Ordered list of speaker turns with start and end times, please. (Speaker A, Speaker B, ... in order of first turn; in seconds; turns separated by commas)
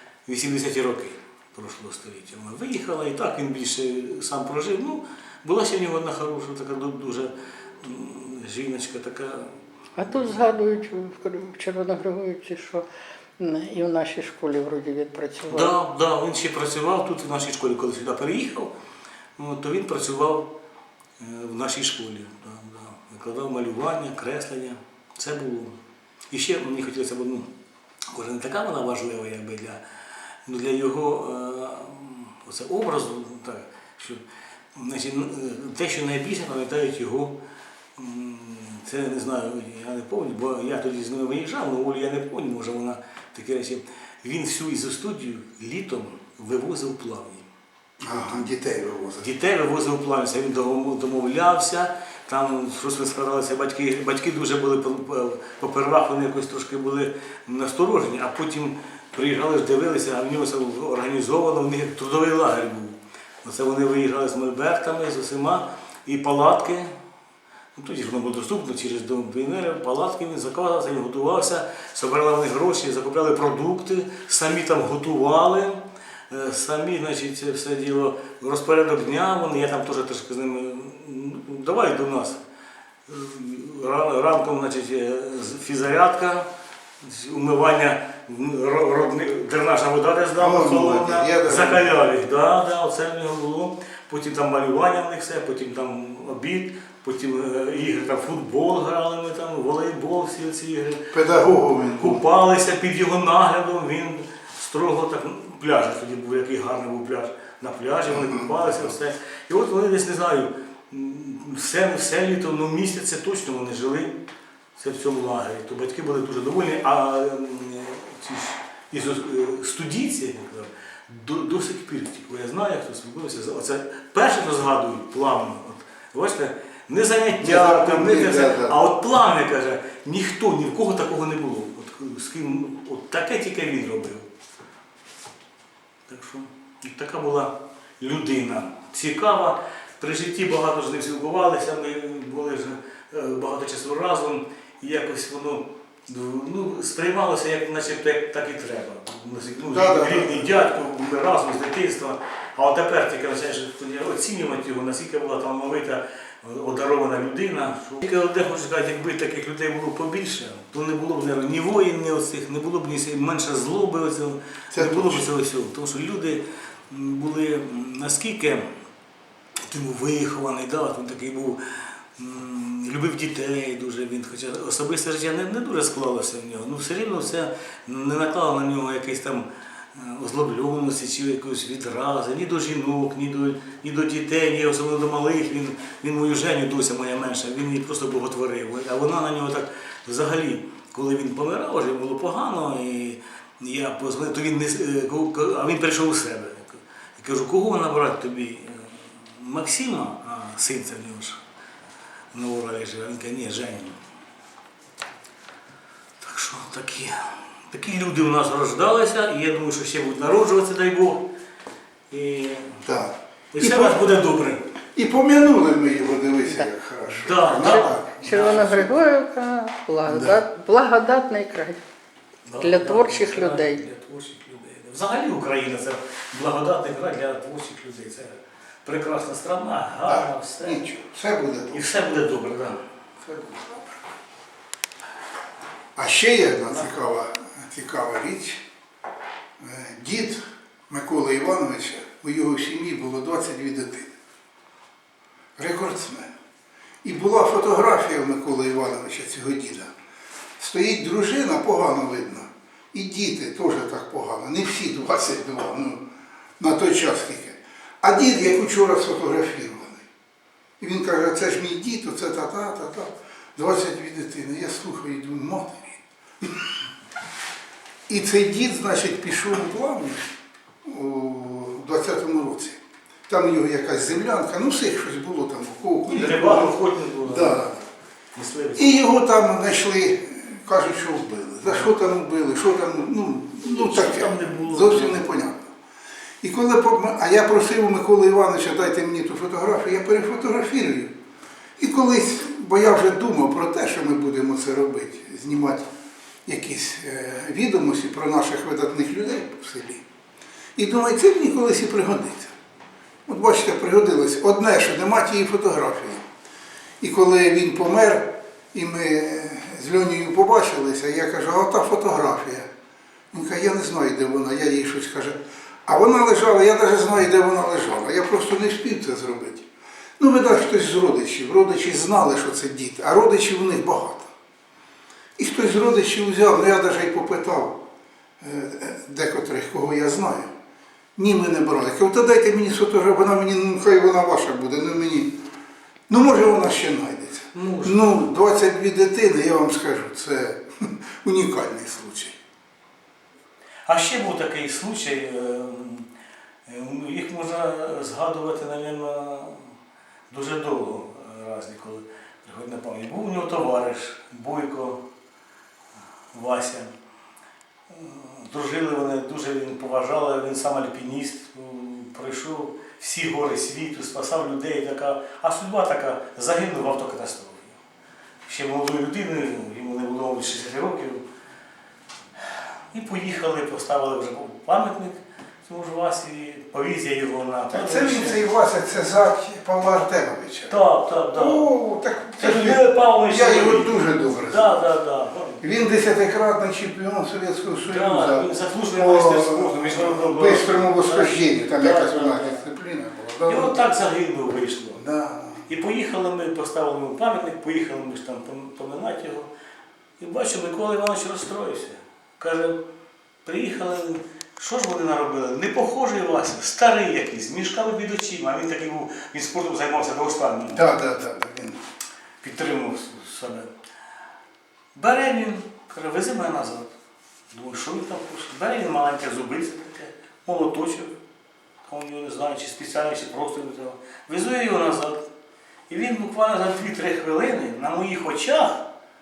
Speaker A: 0.3-9.5, Speaker B: 10.0-12.9, Speaker B: 13.4-15.7, Speaker A: 15.5-18.7, Speaker A: 19.4-20.5, Speaker A: 21.2-25.8, Speaker A: 26.3-27.5, Speaker A: 28.1-29.8, Speaker A: 30.5-34.2, Speaker A: 34.8-37.4, Speaker A: 38.0-47.5, Speaker C: 48.0-49.3, Speaker A: 49.2-66.9, Speaker A: 67.8-82.4, Speaker A: 83.1-86.5, Speaker A: 87.0-101.2, Speaker C: 90.4-91.9, Speaker C: 101.1-102.2, Speaker A: 102.0-114.2, Speaker C: 108.1-108.5, Speaker A: 114.8-134.3, Speaker C: 127.4-128.8, Speaker A: 136.1-168.7, Speaker C: 149.7-150.5, Speaker C: 164.7-165.3, Speaker A: 169.7-201.4, Speaker A: 202.3-204.0, Speaker A: 206.2-211.3, Speaker A: 212.1-212.8, Speaker C: 212.8-214.0, Speaker A: 213.5-214.7, Speaker C: 214.9-218.9, Speaker A: 217.2-218.8, Speaker B: 217.5-221.8, Speaker C: 220.1-220.4, Speaker A: 222.5-230.8, Speaker B: 222.6-223.8, Speaker C: 230.1-231.8, Speaker A: 231.7-232.8, Speaker C: 233.2-233.9, Speaker C: 236.0-238.6, Speaker C: 239.6-244.1, Speaker C: 245.6-246.3, Speaker C: 247.0-249.9, Speaker C: 250.6-256.0, Speaker C: 256.6-260.1, Speaker C: 260.8-266.7, Speaker C: 268.1-270.3, Speaker C: 270.8-277.8, Speaker A: 276.1-277.8, Speaker A: 278.4-279.0, Speaker C: 278.8-285.7, Speaker A: 283.6-285.2, Speaker C: 286.4-291.1, Speaker C: 291.8-295.9, Speaker C: 296.5-300.0, Speaker C: 300.8-302.5, Speaker C: 303.3-306.3, Speaker C: 307.0-312.7, Speaker C: 313.3-319.7, Speaker C: 320.2-324.3, Speaker C: 325.4-327.8, Speaker C: 328.4-330.5, Speaker C: 331.2-335.4, Speaker C: 336.1-342.4, Speaker A: 337.5-338.3, Speaker A: 343.9-346.1, Speaker A: 346.7-349.7, Speaker A: 350.3-355.0, Speaker A: 356.3-356.9, Speaker A: 357.9-367.8, Speaker A: 368.5-371.2, Speaker A: 372.5-378.4, Speaker C: 377.7-380.8, Speaker A: 380.7-381.7, Speaker C: 381.3-384.7, Speaker A: 382.4-385.6, Speaker C: 385.6-393.8, Speaker A: 387.9-392.6, Speaker A: 393.5-395.0, Speaker C: 394.9-395.7, Speaker A: 395.7-399.5, Speaker A: 400.2-402.8, Speaker A: 403.4-410.9, Speaker C: 410.7-411.8, Speaker A: 412.4-413.7, Speaker A: 414.9-416.9, Speaker A: 417.5-421.2, Speaker A: 421.8-425.3, Speaker A: 425.9-428.9